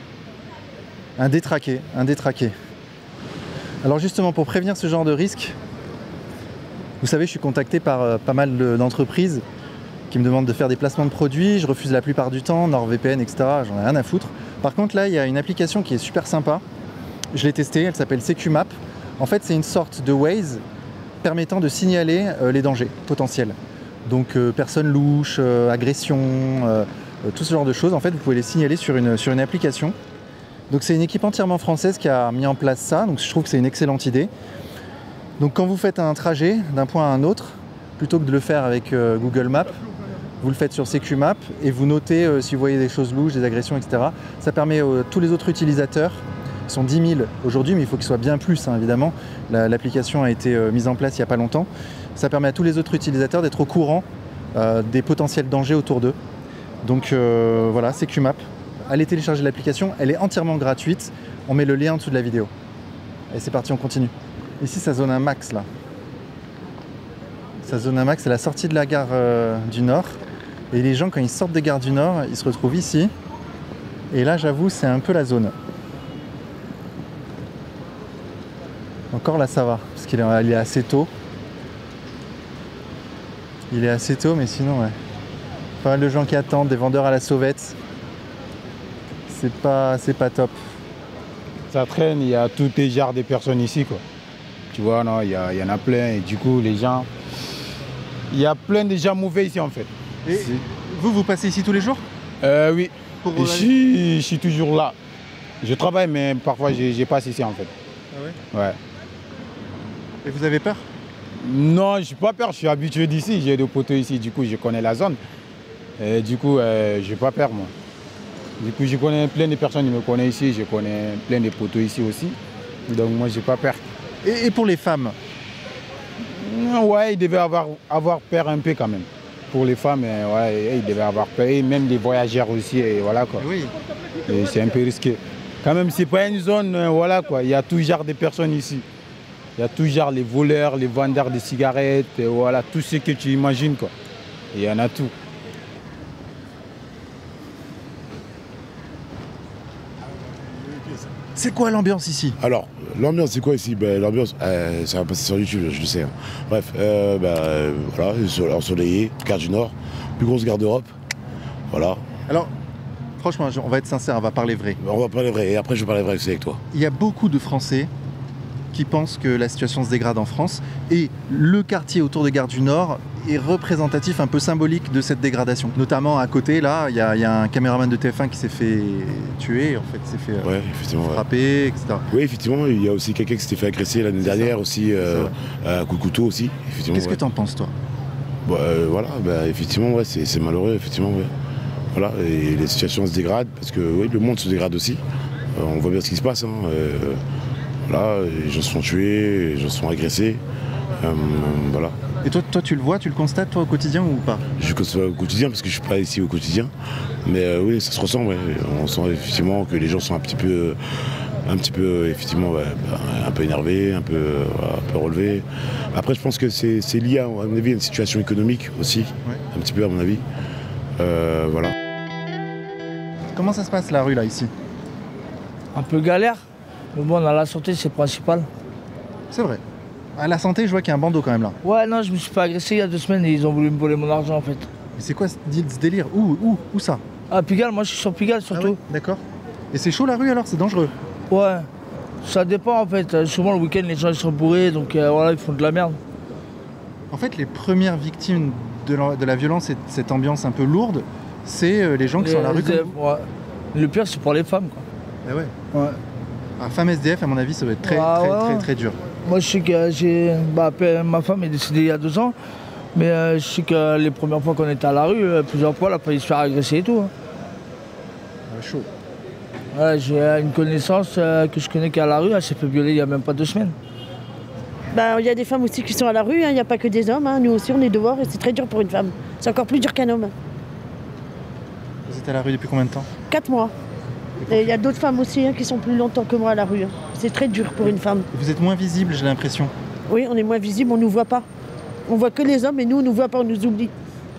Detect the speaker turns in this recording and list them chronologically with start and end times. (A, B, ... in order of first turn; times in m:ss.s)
0:01.2-0:02.5 A
0:03.8-0:05.6 A
0:07.0-0:09.4 A
0:10.1-0:16.6 A
0:17.3-0:20.6 A
0:21.2-0:29.9 A
0:30.7-0:34.3 A
0:35.4-0:39.7 A
0:40.4-0:56.2 A
0:56.8-1:02.5 A
1:03.3-1:05.6 A
1:07.6-1:10.2 A
1:10.7-1:13.1 A
1:14.1-1:15.5 A
1:19.1-1:21.1 A
1:23.7-1:24.9 A
1:25.8-1:27.8 A
1:29.3-1:30.5 A
1:31.7-1:34.0 B
1:34.7-1:37.1 B
1:38.3-1:40.6 B
1:40.2-1:42.0 A
1:42.4-1:45.0 B
1:43.2-1:43.7 A
1:45.6-1:47.7 B
1:48.1-1:48.4 A
1:48.5-1:48.8 B
1:50.2-1:50.8 A
1:51.4-1:55.2 B
1:56.0-1:57.7 B
1:58.6-2:02.4 B
2:02.9-2:03.8 B
2:04.2-2:05.1 A
2:06.3-2:13.4 B
2:13.4-2:13.7 A
2:14.3-2:18.8 B
2:19.6-2:23.9 B
2:24.5-2:25.1 B
2:31.4-2:32.4 A
2:32.4-2:40.9 C
2:41.7-2:42.0 C
2:43.2-2:44.8 A
2:44.8-2:46.6 C
2:46.7-2:47.9 A
2:48.7-3:00.5 A
3:00.4-3:01.2 C
3:01.0-3:02.0 A
3:02.1-3:07.2 C
3:04.2-3:05.3 A
3:06.9-3:07.7 A
3:08.4-3:11.3 C
3:11.9-3:15.0 C
3:15.5-3:17.2 C
3:17.9-3:20.4 C
3:21.0-3:22.0 C
3:22.2-3:24.4 A
3:24.6-3:26.7 C
3:27.2-3:30.8 C
3:31.4-3:40.2 C
3:41.0-3:41.7 C
3:43.3-3:44.5 A
3:45.7-3:46.4 D
3:46.9-3:48.5 D
3:49.3-3:49.6 A
3:50.2-3:51.6 A
3:51.6-3:54.7 D
3:55.0-3:57.0 A
3:57.3-3:58.8 D
3:58.5-3:59.2 A
3:59.7-4:00.9 A
4:01.3-4:01.7 D
4:02.2-4:06.0 D
4:07.1-4:12.9 A
4:12.2-4:14.8 D
4:15.2-4:15.5 A
4:15.7-4:16.0 D
4:16.6-4:19.0 A
4:17.8-4:18.6 D
4:19.2-4:22.3 D
4:22.9-4:27.1 D
4:28.5-4:28.9 A
4:29.7-4:33.7 D
4:34.9-4:40.3 E
4:42.1-4:43.1 A
4:43.3-4:43.7 E
4:44.4-4:44.8 A
4:44.5-4:48.3 E
4:48.3-4:49.7 A
4:50.1-4:51.4 E
4:52.1-4:53.9 E